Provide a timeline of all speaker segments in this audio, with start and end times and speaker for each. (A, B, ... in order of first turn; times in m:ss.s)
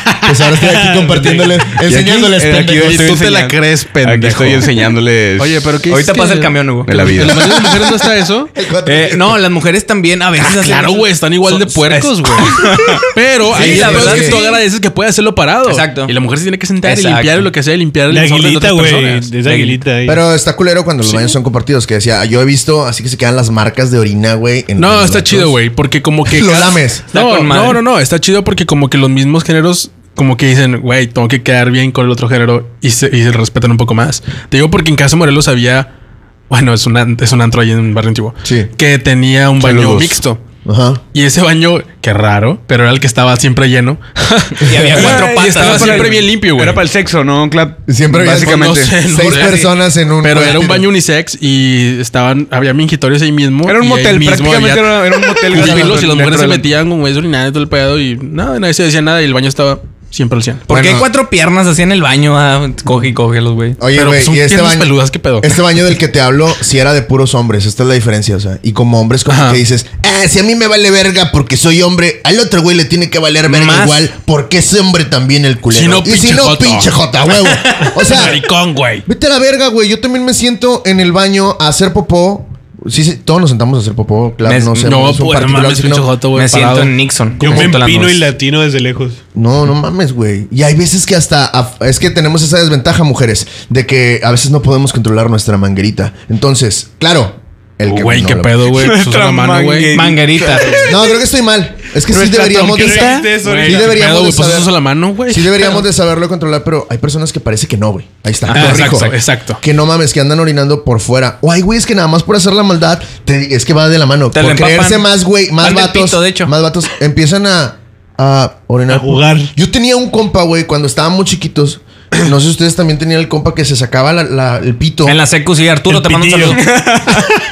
0:00.2-0:03.0 A
0:01.2-0:01.4 B
0:01.8-0:05.6 C
0:02.7-0:04.8 B
0:05.4-0:08.5 B
0:05.9-0:07.3 D
0:06.8-0:07.6 C
0:08.5-0:09.4 A
0:08.8-0:12.7 D
0:10.4-0:19.3 B
0:12.5-0:13.0 C
0:13.5-0:14.6 D
0:13.5-0:14.4 A
0:15.6-0:16.1 D
0:16.8-0:17.5 D
0:18.1-0:20.2 E
0:19.4-0:19.8 D
0:20.0-0:25.6 A
0:21.0-0:21.3 B
0:24.8-0:35.9 B
0:26.3-0:27.0 A
0:27.1-0:27.8 D
0:36.5-0:40.4 B
0:38.4-0:38.7 A
0:39.6-0:40.2 C
0:40.6-0:41.0 A
0:41.1-0:46.8 B
0:44.6-0:46.2 D
0:44.9-0:48.9 C
0:47.9-0:50.9 A
0:48.1-1:00.6 B
0:49.3-0:49.6 D
0:53.6-0:56.6 C
0:55.6-0:55.9 A
1:00.7-1:03.8 D
1:00.7-1:01.1 A
1:03.8-1:18.4 A
1:03.9-1:05.6 B
1:09.3-1:09.6 B
1:13.5-1:14.1 D
1:15.7-1:16.9 B
1:17.8-1:19.0 B
1:19.0-1:26.1 A
1:24.4-1:24.9 D
1:24.8-1:26.9 B
1:26.3-1:28.2 D
1:27.4-1:29.2 E
1:29.3-1:38.7 A
1:37.8-1:40.1 B
1:38.7-1:40.9 C
1:39.9-1:40.9 D
1:40.8-1:44.7 A
1:42.1-1:44.0 E
1:42.3-1:45.8 B
1:45.3-2:05.2 A
1:48.5-1:49.1 D
1:48.5-1:49.6 B
1:54.3-1:56.5 D
1:58.9-1:59.5 E
2:05.0-2:06.6 D
2:05.9-2:06.6 E
2:06.5-2:07.3 C